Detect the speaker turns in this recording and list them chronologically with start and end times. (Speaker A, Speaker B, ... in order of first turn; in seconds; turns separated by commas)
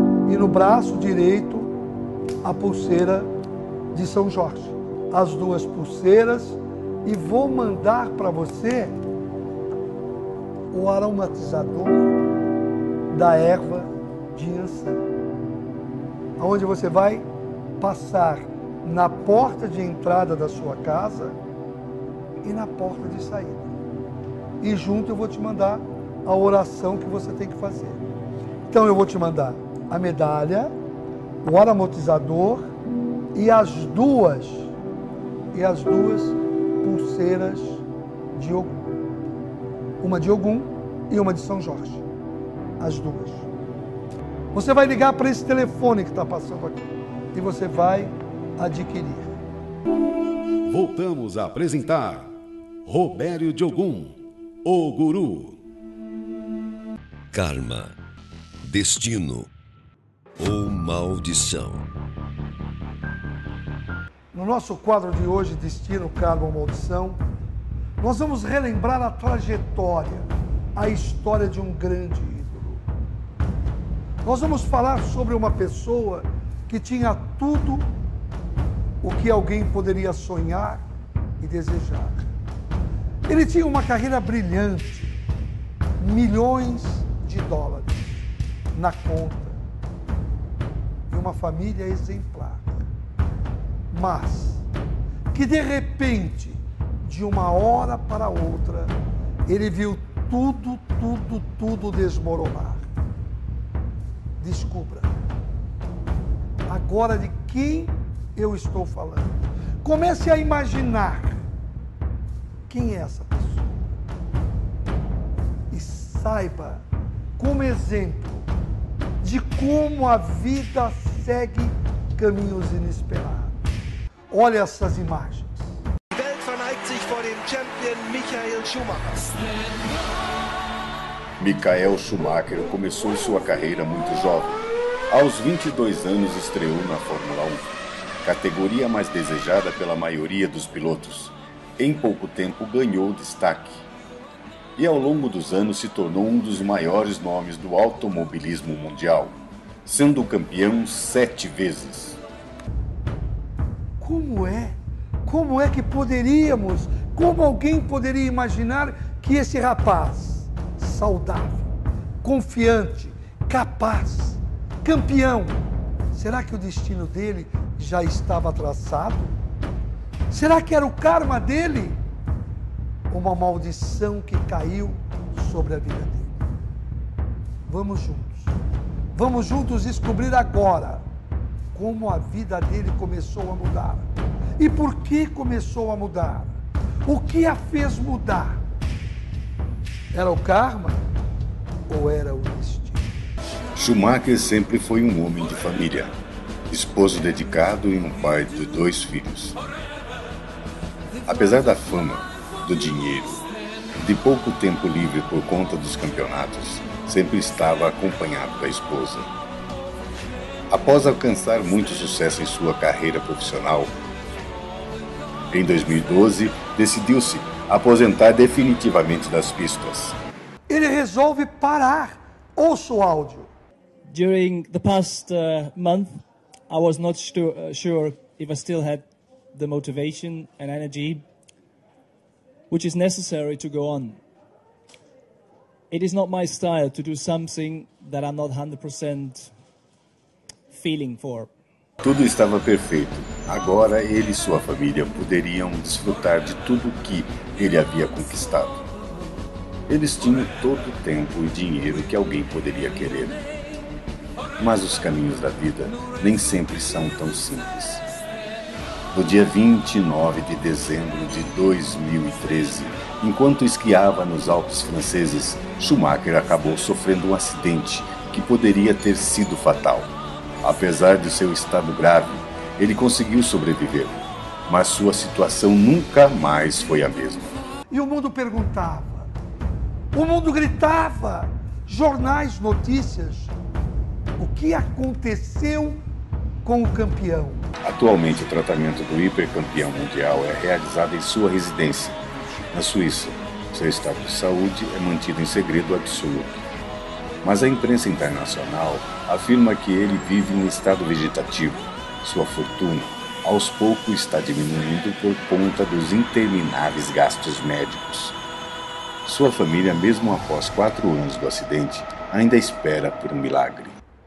Speaker A: 0.2-1.7, Speaker A: 2.4-3.3, Speaker A: 3.9-9.0, Speaker A: 10.7-12.1, Speaker A: 13.1-15.0, Speaker A: 16.4-17.2, Speaker A: 17.8-21.4, Speaker A: 22.4-23.7, Speaker A: 24.6-28.0, Speaker A: 28.7-30.7, Speaker A: 31.4-32.7, Speaker A: 33.3-34.7, Speaker A: 35.5-37.8, Speaker A: 38.3-38.8, Speaker A: 40.0-42.0, Speaker A: 42.8-43.5, Speaker A: 44.5-49.3, Speaker B: 50.6-55.6, Speaker C: 57.3-57.9, Speaker C: 58.6-59.5, Speaker C: 60.4-61.9, Speaker A: 64.3-67.2, Speaker A: 68.0-72.8, Speaker A: 74.2-77.9, Speaker A: 79.0-80.8, Speaker A: 81.4-82.3, Speaker A: 83.3-85.1, Speaker A: 86.0-89.6, Speaker A: 91.1-92.8, Speaker A: 93.9-94.6, Speaker A: 95.3-98.9, Speaker A: 99.5-102.9, Speaker A: 104.4-105.1, Speaker A: 106.7-111.4, Speaker A: 112.7-113.9, Speaker A: 115.7-116.8, Speaker A: 117.4-118.5, Speaker A: 119.2-123.6, Speaker A: 124.3-125.7, Speaker D: 126.1-129.4, Speaker E: 131.4-143.8, Speaker E: 144.8-152.2, Speaker A: 154.0-161.7, Speaker A: 162.2-165.6, Speaker A: 166.1-169.3, Speaker A: 170.3-172.0, Speaker A: 173.1-176.4, Speaker A: 177.7-178.5, Speaker A: 179.1-181.0, Speaker A: 181.7-184.1, Speaker A: 184.6-188.6, Speaker A: 190.1-191.0, Speaker A: 191.9-193.1, Speaker E: 193.7-196.1, Speaker E: 196.7-199.6, Speaker E: 201.2-203.4, Speaker E: 204.0-209.3, Speaker E: 210.7-213.9, Speaker E: 215.5-220.2, Speaker A: 220.7-223.5, Speaker F: 224.1-231.2, Speaker F: 232.7-234.2, Speaker F: 235.9-239.5, Speaker F: 240.7-241.5, Speaker E: 242.0-248.8, Speaker E: 249.9-253.4, Speaker E: 254.6-258.0, Speaker E: 259.1-277.6, Speaker A: 277.9-279.3, Speaker A: 280.1-283.5, Speaker A: 284.4-286.0, Speaker A: 286.6-287.7, Speaker E: 287.8-292.2, Speaker E: 292.7-296.6, Speaker E: 297.4-308.4, Speaker E: 309.2-313.9